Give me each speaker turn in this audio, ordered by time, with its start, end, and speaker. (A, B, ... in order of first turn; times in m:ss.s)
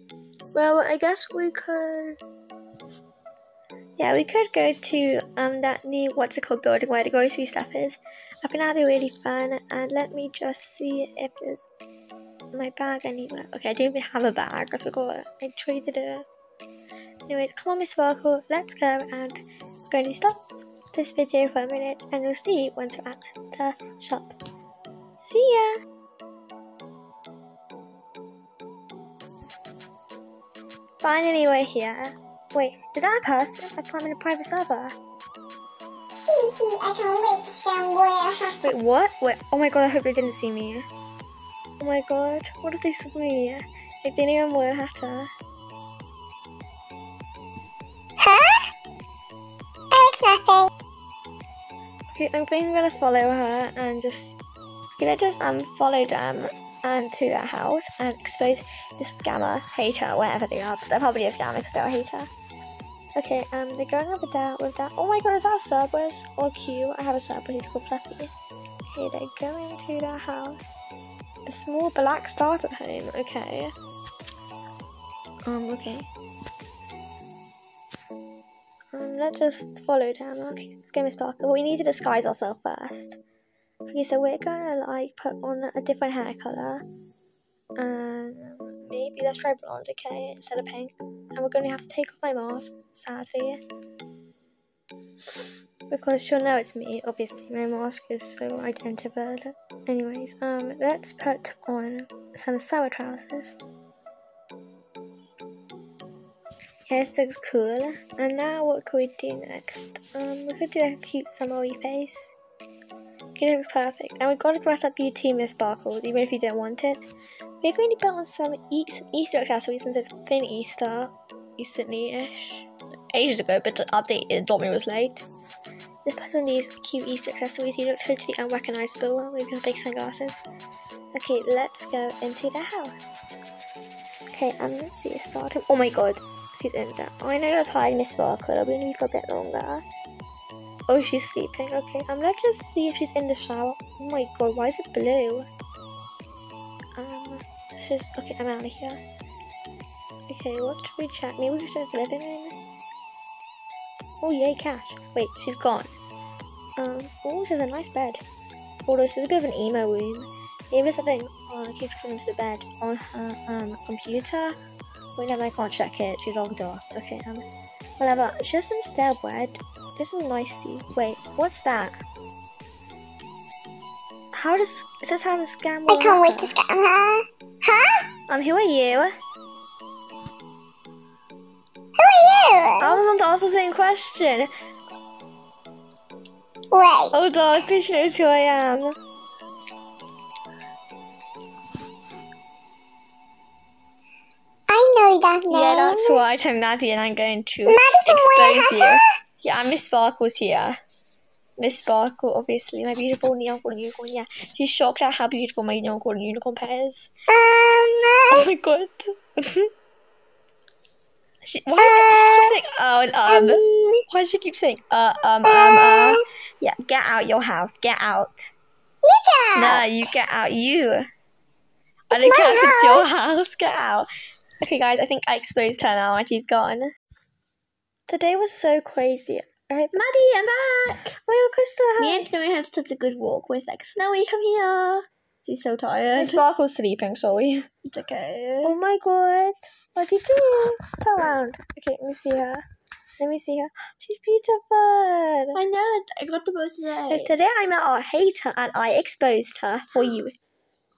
0:00.5-0:02.2 A
0:04.0-0:11.7 A
0:12.5-0:16.3 A
0:17.3-0:20.4 A
0:20.9-0:24.4 A
0:25.2-0:25.8 A
0:31.0-0:35.0 A
0:36.2-0:38.6 B
0:38.6-0:40.8 A
0:41.8-0:45.3 A
0:48.2-0:48.6 B
0:49.9-0:50.7 B
0:52.1-0:54.4 A
0:55.0-1:02.3 A
1:03.2-1:08.3 A
1:08.9-1:10.7 A
1:11.4-1:13.7 A
1:15.4-1:16.1 A
1:18.9-1:23.2 A
1:23.9-1:26.8 A
1:27.8-1:33.6 A
1:35.9-1:43.6 A
1:46.9-1:52.4 A
1:53.4-1:57.1 A
1:57.6-2:05.3 A
2:06.0-2:10.5 A
2:11.1-2:13.2 A
2:14.3-2:19.8 A
2:20.9-2:25.5 A
2:27.0-2:29.0 A
2:30.3-2:32.6 A
2:34.2-2:35.9 A
2:36.8-2:38.2 A
2:38.9-2:44.6 A
2:45.2-2:47.4 A
2:48.0-2:52.0 A
2:54.3-2:56.6 A
2:55.9-2:58.0 B
2:58.3-2:59.1 A
3:02.0-3:03.0 B
3:02.8-3:04.5 A
3:06.7-3:07.1 B
3:07.1-3:08.9 A
3:14.7-3:16.2 B
3:15.5-3:20.8 A
3:17.7-3:19.0 B
3:21.6-3:27.1 A
3:27.3-3:28.4 B
3:28.3-3:29.7 A
3:31.4-3:38.5 A
3:31.8-3:32.5 B
3:33.3-3:34.0 B
3:35.4-3:36.2 B
3:39.0-3:39.9 B
3:39.6-3:41.1 A
3:42.1-3:43.1 B
3:42.1-3:44.1 A
3:44.6-3:46.9 A
3:48.1-3:50.0 A
3:49.9-3:51.1 C
3:51.2-3:52.2 A
3:52.0-3:56.4 C
3:56.2-3:57.7 A
3:57.8-3:58.7 C
3:58.6-4:02.6 A
4:03.2-4:05.6 A
4:05.5-4:07.4 C
4:07.1-4:10.3 A